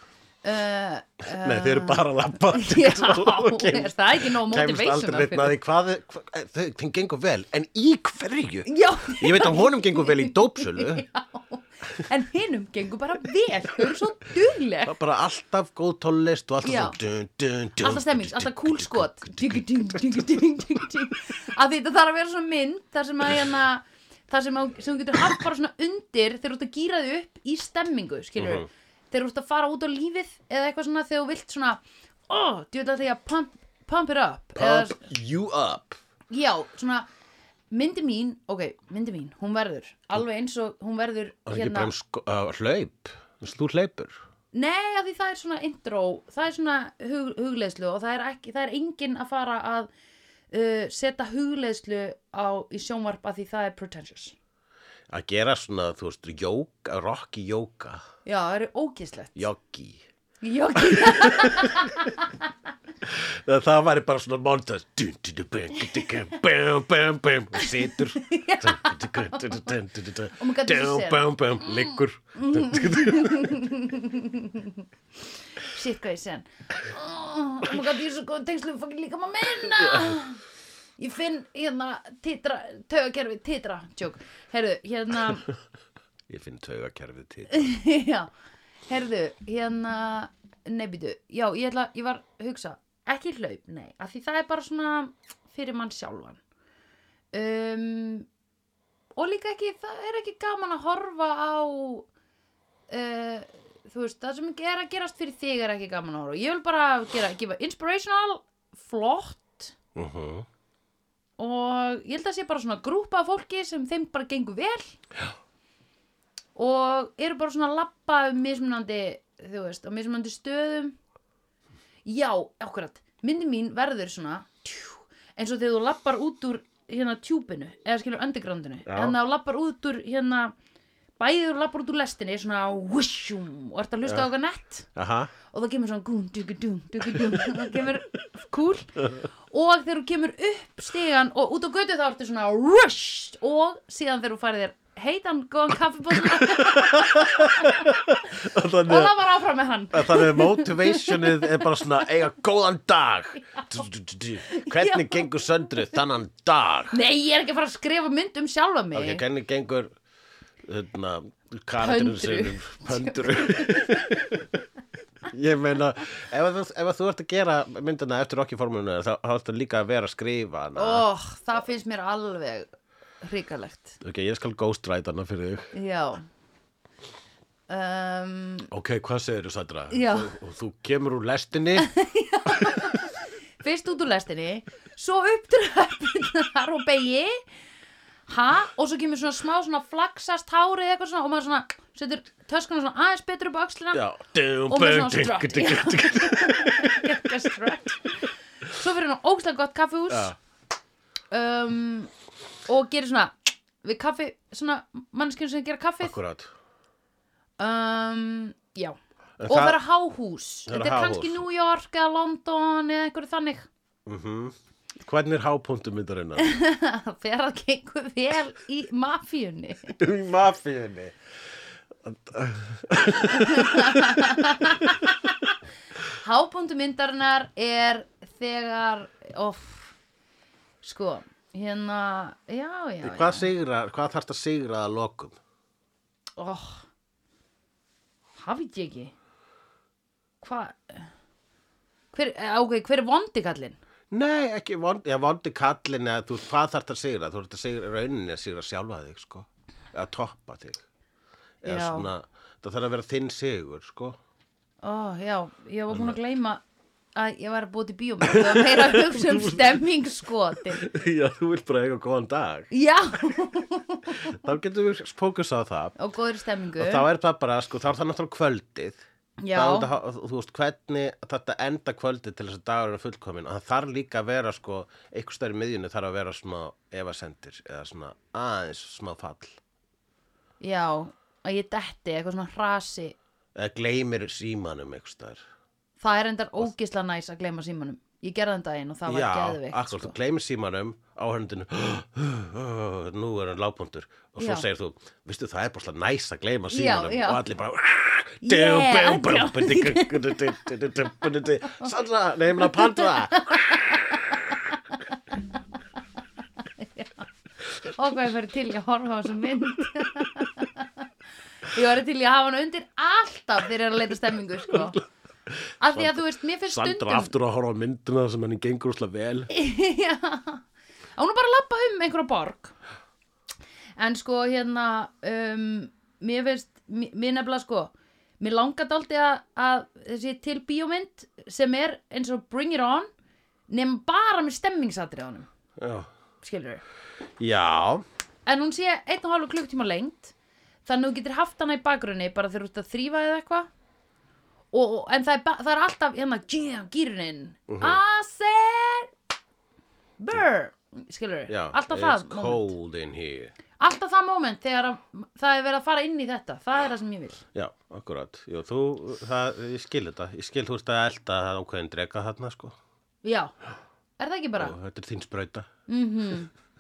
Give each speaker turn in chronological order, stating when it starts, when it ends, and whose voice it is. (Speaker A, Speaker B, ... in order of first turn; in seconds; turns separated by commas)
Speaker A: 0.4-5.5, Speaker B: 1.3-11.1, Speaker A: 8.7-15.0, Speaker B: 14.9-20.4, Speaker A: 16.6-17.0, Speaker A: 17.8-35.1, Speaker B: 28.4-28.7, Speaker B: 34.6-36.0, Speaker A: 36.3-37.1, Speaker A: 37.7-41.9, Speaker B: 41.5-44.2, Speaker A: 44.5-49.9, Speaker A: 50.5-54.4, Speaker B: 55.1-58.0, Speaker A: 58.2-59.5, Speaker B: 59.4-60.0, Speaker A: 60.4-62.5, Speaker B: 60.8-61.9, Speaker B: 63.0-73.7, Speaker A: 67.6-69.7, Speaker A: 70.3-74.9, Speaker A: 75.5-80.4, Speaker B: 79.8-80.2, Speaker A: 81.0-85.5, Speaker B: 86.3-87.7, Speaker A: 87.5-88.3, Speaker A: 88.9-96.4, Speaker A: 97.3-98.3, Speaker A: 99.2-102.1, Speaker A: 102.9-109.7, Speaker B: 110.0-110.5, Speaker A: 111.4-115.0, Speaker A: 116.6-121.0, Speaker A: 122.1-130.5, Speaker B: 128.9-129.2, Speaker A: 131.2-134.9, Speaker B: 134.9-135.3, Speaker A: 135.5-147.9, Speaker B: 137.1-137.6, Speaker B: 146.2-149.2, Speaker A: 148.7-151.9, Speaker B: 149.9-156.9, Speaker A: 153.5-153.8, Speaker A: 154.5-155.3, Speaker A: 156.9-159.2, Speaker B: 158.9-159.9, Speaker B: 160.6-164.6, Speaker A: 161.8-164.2, Speaker B: 165.3-171.1, Speaker A: 170.8-172.7, Speaker A: 173.2-174.0, Speaker B: 174.0-175.7, Speaker A: 175.7-176.3, Speaker A: 177.7-178.7, Speaker B: 178.7-181.9, Speaker A: 179.9-180.3, Speaker A: 181.8-187.4, Speaker A: 188.3-194.0, Speaker B: 193.9-197.1, Speaker A: 194.7-200.3, Speaker B: 200.1-200.4, Speaker A: 201.3-202.1, Speaker A: 202.7-206.2, Speaker B: 206.0-206.5, Speaker A: 207.6-213.7, Speaker B: 209.4-209.8, Speaker B: 210.7-211.4, Speaker B: 214.1-216.5, Speaker A: 216.4-220.0, Speaker B: 220.0-221.2, Speaker B: 222.0-225.1, Speaker A: 223.3-225.1, Speaker A: 226.1-229.9, Speaker A: 230.8-233.5, Speaker B: 233.0-235.4, Speaker A: 236.4-236.9, Speaker A: 238.4-239.1, Speaker A: 240.4-241.1, Speaker A: 242.1-243.8, Speaker B: 244.1-250.8, Speaker B: 251.6-254.2, Speaker A: 251.6-252.1, Speaker A: 254.8-256.6, Speaker B: 255.9-256.2, Speaker A: 257.1-260.9, Speaker B: 258.2-259.8, Speaker B: 260.8-262.7, Speaker A: 262.7-264.4, Speaker B: 264.3-265.9, Speaker A: 266.0-267.1, Speaker B: 266.8-269.0, Speaker A: 269.4-269.9, Speaker B: 269.5-279.6, Speaker A: 280.6-283.2, Speaker B: 283.6-285.4, Speaker A: 286.0-290.1, Speaker B: 289.1-304.4, Speaker A: 294.4-294.6, Speaker A: 296.7-297.4, Speaker A: 298.4-300.4, Speaker A: 302.6-305.0, Speaker A: 306.8-307.3, Speaker A: 307.8-311.0, Speaker A: 311.7-315.0, Speaker B: 314.7-319.5, Speaker A: 315.8-317.3, Speaker A: 319.5-320.6, Speaker A: 321.2-322.8, Speaker A: 324.0-333.1, Speaker A: 333.7-335.5, Speaker B: 335.8-336.1, Speaker A: 336.4-336.8, Speaker B: 337.4-338.0, Speaker A: 338.5-340.3, Speaker A: 340.9-343.7, Speaker A: 344.7-349.1, Speaker B: 347.7-348.0, Speaker A: 350.2-352.7, Speaker B: 351.5-353.5, Speaker A: 353.8-357.4, Speaker B: 357.5-362.8, Speaker A: 363.2-363.5, Speaker A: 364.2-364.8, Speaker B: 364.6-365.7, Speaker A: 365.9-366.5